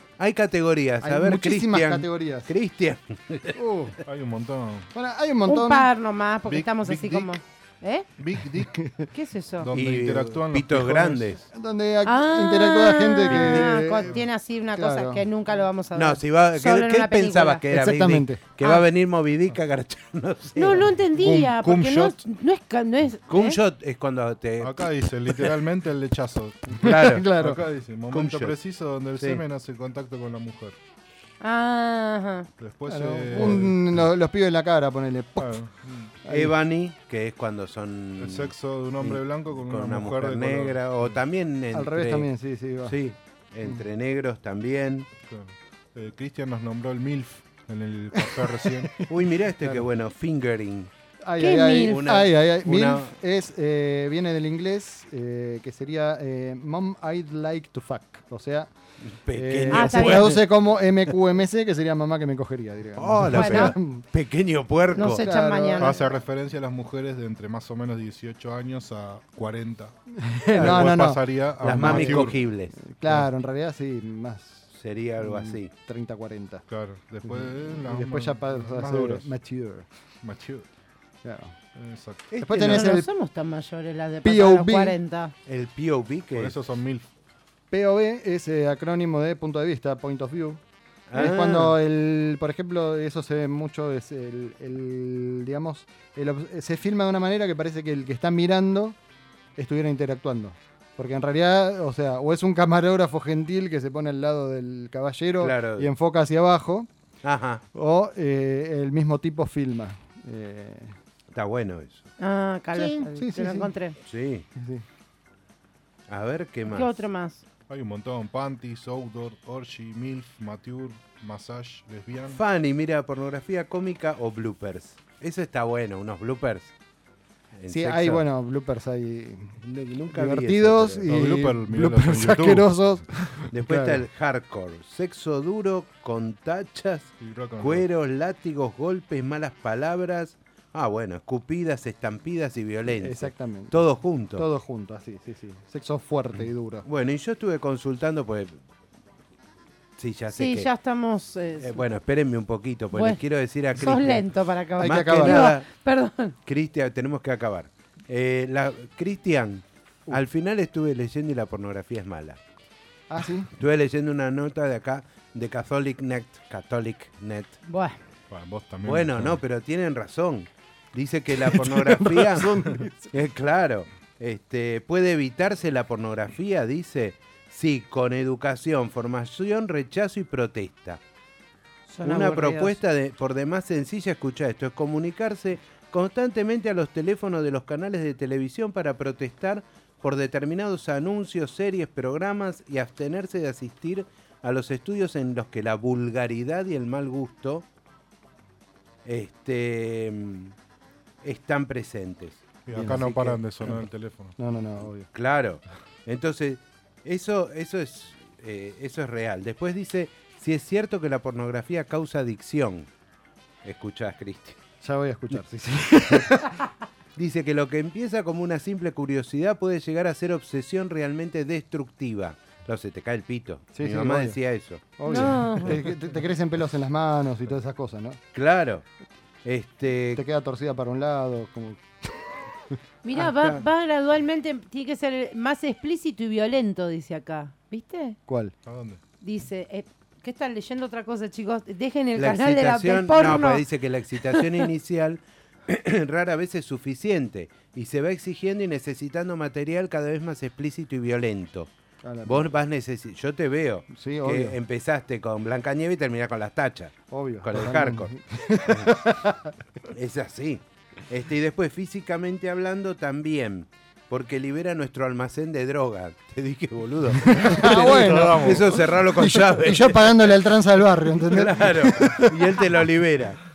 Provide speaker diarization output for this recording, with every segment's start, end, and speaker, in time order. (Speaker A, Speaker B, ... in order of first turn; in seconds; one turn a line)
Speaker A: 0.2-3.6
Speaker B: 1.0-2.5
Speaker B: 3.5-4.0
Speaker C: 4.0-4.9
Speaker B: 4.9-5.9
Speaker D: 5.5-8.1
Speaker C: 6.5-7.3
Speaker C: 8.2-8.9
Speaker D: 9.1-9.7
Speaker C: 9.6-11.4
Speaker A: 9.7-11.4
Speaker B: 11.5-14.1
Speaker D: 12.0-17.6
Speaker A: 13.3-13.7
Speaker B: 14.8-15.2
Speaker A: 15.9-20.9
Speaker B: 17.7-18.4
Speaker D: 20.6-23.6
Speaker C: 21.1-22.2
Speaker A: 23.3-24.8
Speaker C: 24.6-30.8
Speaker A: 26.8-27.3
Speaker B: 26.8-27.6
Speaker A: 28.1-28.6
Speaker D: 31.4-32.5
Speaker C: 32.6-34.1
Speaker B: 32.9-35.6
Speaker C: 35.4-36.1
Speaker B: 36.2-36.5
Speaker A: 36.3-42.3
Speaker C: 38.2-41.2
Speaker B: 41.7-43.0
Speaker A: 42.8-45.1
Speaker C: 45.2-49.0
Speaker B: 48.2-48.9
Speaker A: 49.1-50.9
Speaker B: 51.2-58.7
Speaker D: 51.4-52.0
Speaker A: 51.9-53.1
Speaker A: 59.2-60.5
Speaker B: 59.3-64.0
Speaker D: 59.7-60.3
Speaker A: 63.0-65.2
Speaker D: 63.3-63.7
Speaker D: 64.9-66.1
Speaker B: 65.0-66.1
Speaker C: 65.8-69.9
Speaker B: 70.2-74.7
Speaker C: 70.5-72.4
Speaker A: 70.5-71.1
Speaker A: 71.6-72.7
Speaker A: 74.7-75.7
Speaker B: 75.2-76.6
Speaker C: 76.7-79.3
Speaker B: 77.2-79.8
Speaker C: 80.2-80.6
Speaker B: 81.2-81.5
Speaker C: 81.8-82.4
Speaker A: 82.3-82.8
Speaker B: 82.4-83.1
Speaker D: 82.6-85.3
Speaker B: 84.2-85.0
Speaker A: 85.5-86.5
Speaker C: 86.3-87.0
Speaker B: 87.7-90.6
Speaker A: 91.1-91.7
Speaker B: 91.1-99.0
Speaker B: 99.5-106.9
Speaker A: 105.4-105.9
Speaker A: 107.2-107.6
Speaker B: 107.7-111.0
Speaker A: 111.3-112.0
Speaker D: 112.2-114.0
Speaker B: 112.7-113.7
Speaker A: 114.1-114.5
Speaker B: 114.5-114.8
Speaker A: 116.1-116.9
Speaker D: 116.7-117.4
Speaker C: 117.7-122.4
Speaker A: 122.3-126.7
Speaker A: 127.5-128.2
Speaker B: 127.7-129.6
Speaker A: 129.6-131.1
Speaker B: 130.1-134.0
Speaker C: 131.1-133.0
Speaker A: 133.5-144.5
Speaker C: 137.2-137.8
Speaker B: 142.9-143.8
Speaker B: 144.3-146.8
Speaker A: 146.8-148.6
Speaker A: 150.0-150.7
Speaker D: 150.3-151.8
Speaker A: 151.6-154.2
Speaker D: 152.9-153.2
Speaker D: 153.8-156.3
Speaker B: 154.8-155.5
Speaker A: 154.8-155.7
Speaker A: 156.4-162.4
Speaker B: 163.1-163.5
Speaker A: 163.6-167.6
Speaker D: 167.7-168.0
Speaker C: 168.3-169.4
Speaker A: 168.8-172.5
Speaker B: 171.5-173.1
Speaker A: 173.1-181.0
Speaker D: 181.9-182.8
Speaker A: 182.0-197.7
Speaker A: 199.0-200.5
Speaker A: 201.2-203.4
Speaker C: 202.7-204.4
Speaker B: 202.7-203.8
Speaker B: 204.4-205.1
Speaker A: 205.1-212.9
Speaker A: 213.6-214.6
Speaker B: 214.8-216.6
Speaker A: 215.3-216.3
Speaker A: 217.2-225.7
Speaker B: 223.7-224.4
Speaker B: 225.0-228.2
Speaker D: 225.1-225.8
Speaker A: 228.3-228.8
Speaker A: 229.4-230.2
Speaker B: 230.1-232.1
Speaker D: 233.0-238.2
Speaker A: 233.2-233.6
Speaker B: 238.3-238.5
Speaker C: 238.7-239.0
Speaker D: 239.2-243.6
Speaker A: 242.2-251.7
Speaker D: 244.2-244.7
Speaker B: 252.0-252.5
Speaker A: 252.2-258.9
Speaker B: 253.9-254.6
Speaker B: 257.1-259.5
Speaker A: 259.9-270.5
Speaker B: 267.2-272.6
Speaker C: 267.5-268.8
Speaker A: 271.1-273.4